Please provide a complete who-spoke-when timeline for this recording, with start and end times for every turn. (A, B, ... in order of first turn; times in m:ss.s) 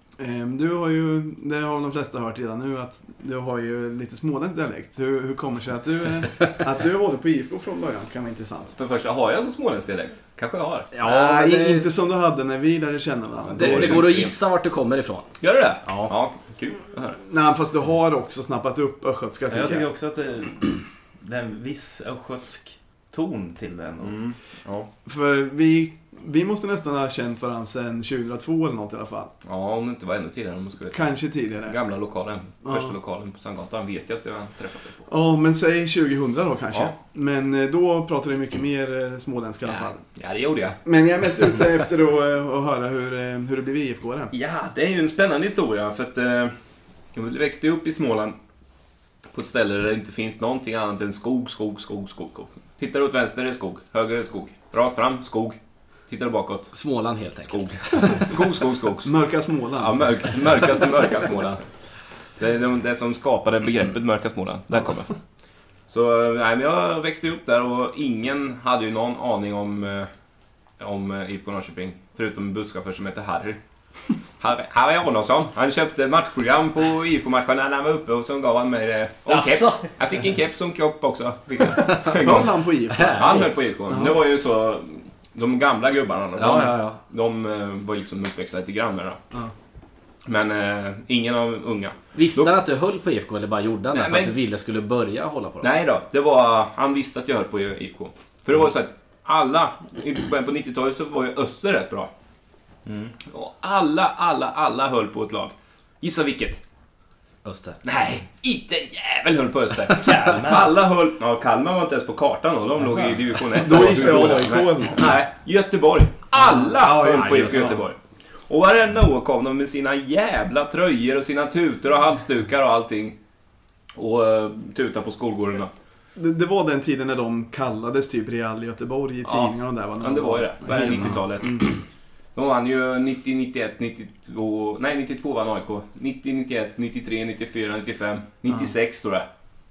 0:00.2-0:08.8 A
0:08.8-0:10.9 B
0:10.9-0:11.9 C
0:11.0-0:14.1 A
0:13.5-0:14.4 B
0:13.5-0:16.1 C
0:15.4-0:17.2 B
0:17.2-0:19.9 A
0:19.5-0:24.2 D
0:24.0-0:24.9 B
0:25.0-0:29.3 A
0:29.4-0:35.0 B
0:30.9-0:31.8 A
0:32.6-0:32.9 A
0:35.1-0:40.0 A
0:39.7-0:40.8 B
0:40.8-0:44.3 A
0:44.3-0:46.5 B
0:47.1-0:48.4 B
0:49.3-0:59.2 B
0:56.7-0:58.2 C
0:59.0-1:00.7 A
0:59.7-1:05.2 B
1:05.9-1:10.1 B
1:10.8-1:13.6 B
1:14.2-1:22.6 B
1:19.3-1:19.8 C
1:21.8-1:22.1 C
1:22.1-1:23.3 A
1:22.9-1:23.6 C
1:23.1-1:29.2 B
1:23.9-1:24.2 A
1:26.4-1:27.0 C
1:30.2-1:32.5 B
1:32.1-1:35.7 C
1:33.9-1:34.4 B
1:35.6-1:42.1 B
1:42.9-1:43.1 D
1:43.2-1:46.6 B
1:47.4-1:47.8 C
1:47.8-2:03.2 B
1:50.0-1:50.7 D
1:53.5-1:55.1 A
1:56.6-1:57.8 A
1:57.0-1:57.8 C
2:03.9-2:05.7 B
2:06.2-2:11.8 A
2:09.2-2:11.8 B
2:12.4-2:19.2 B